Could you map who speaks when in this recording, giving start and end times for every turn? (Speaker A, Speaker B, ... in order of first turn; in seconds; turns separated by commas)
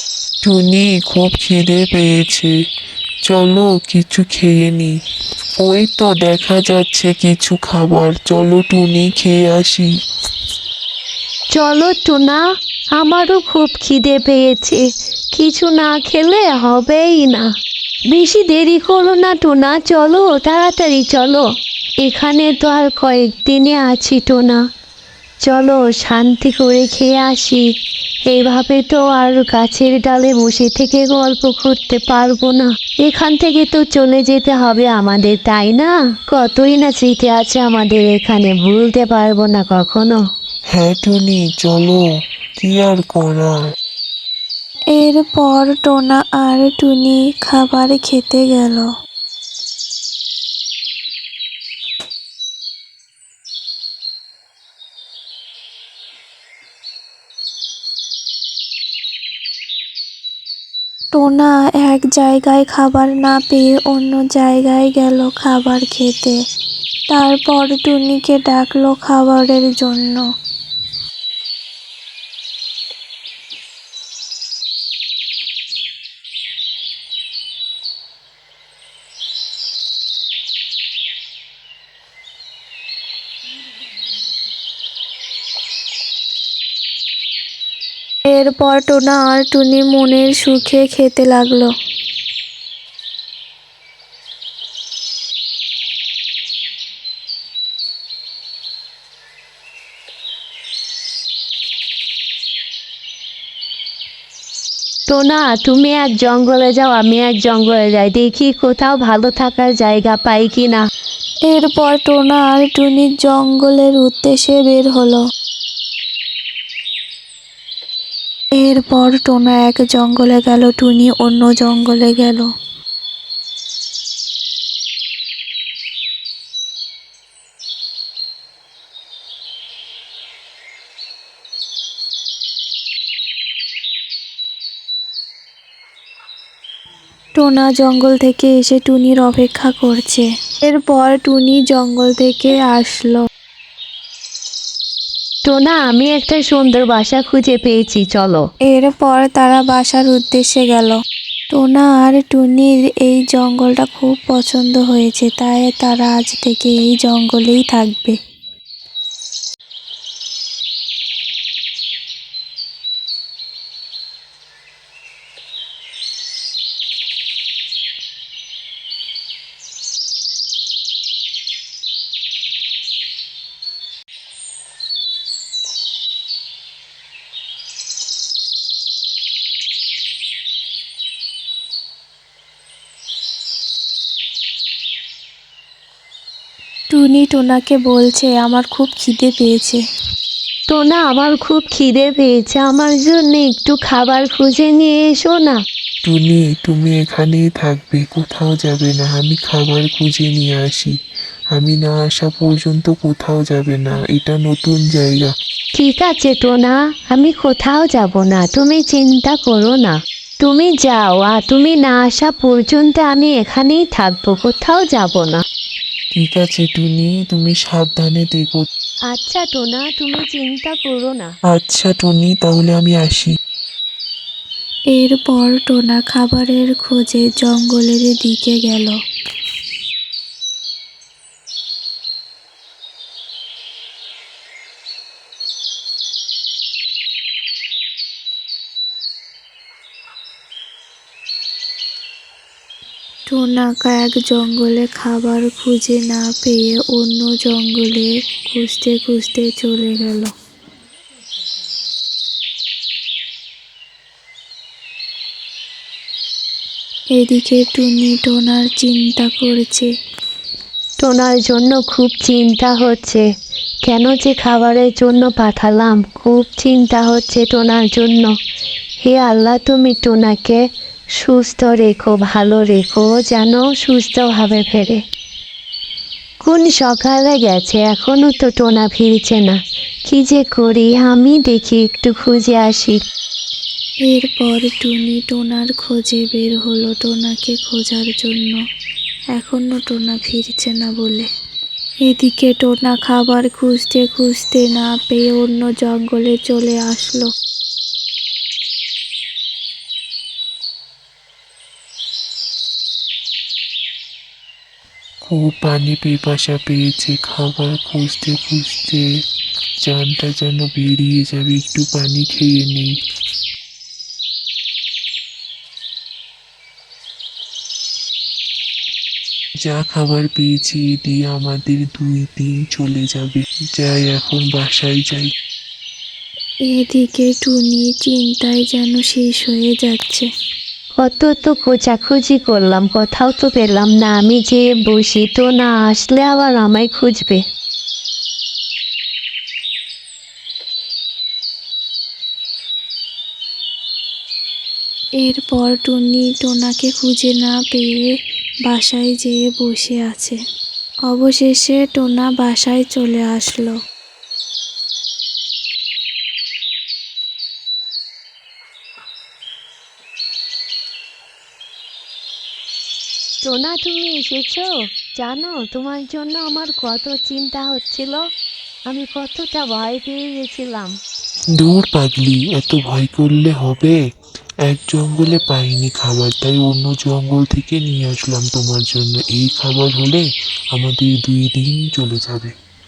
Speaker A: 0.5-2.5, Speaker A: 3.3-4.9, Speaker A: 5.6-9.9, Speaker B: 11.5-12.4, Speaker B: 13.0-14.8, Speaker B: 15.3-17.5, Speaker B: 18.1-21.4, Speaker B: 22.0-24.6, Speaker B: 25.4-27.7, Speaker B: 28.3-40.2, Speaker A: 40.7-42.0, Speaker A: 42.6-43.6, Speaker C: 45.0-48.9, Speaker C: 61.1-66.4, Speaker C: 67.1-70.2, Speaker C: 88.3-91.7, Speaker B: 105.1-110.8, Speaker C: 111.5-115.2, Speaker C: 118.5-122.5, Speaker C: 137.4-143.2, Speaker B: 145.5-148.4, Speaker C: 148.7-151.0, Speaker C: 151.5-158.2, Speaker C: 186.9-189.8, Speaker B: 190.7-195.6, Speaker A: 196.1-200.9, Speaker A: 201.5-205.3, Speaker B: 205.8-215.4, Speaker A: 216.2-218.6, Speaker B: 219.1-221.3, Speaker A: 221.5-223.3, Speaker C: 224.9-228.9, Speaker C: 243.3-250.3, Speaker C: 257.1-259.9, Speaker B: 261.0-263.3, Speaker B: 263.9-268.3, Speaker B: 269.0-270.6, Speaker B: 271.2-275.0, Speaker B: 276.4-283.0, Speaker C: 284.1-288.6, Speaker C: 289.4-291.3, Speaker C: 292.1-297.3, Speaker A: 305.3-309.1, Speaker A: 309.8-312.9, Speaker A: 319.6-325.3, Speaker C: 326.7-330.3, Speaker B: 331.0-337.4, Speaker C: 345.2-348.1, Speaker C: 348.7-350.4, Speaker C: 351.1-353.8, Speaker B: 363.4-368.2, Speaker B: 368.9-371.0, Speaker A: 371.6-374.0, Speaker A: 374.6-382.5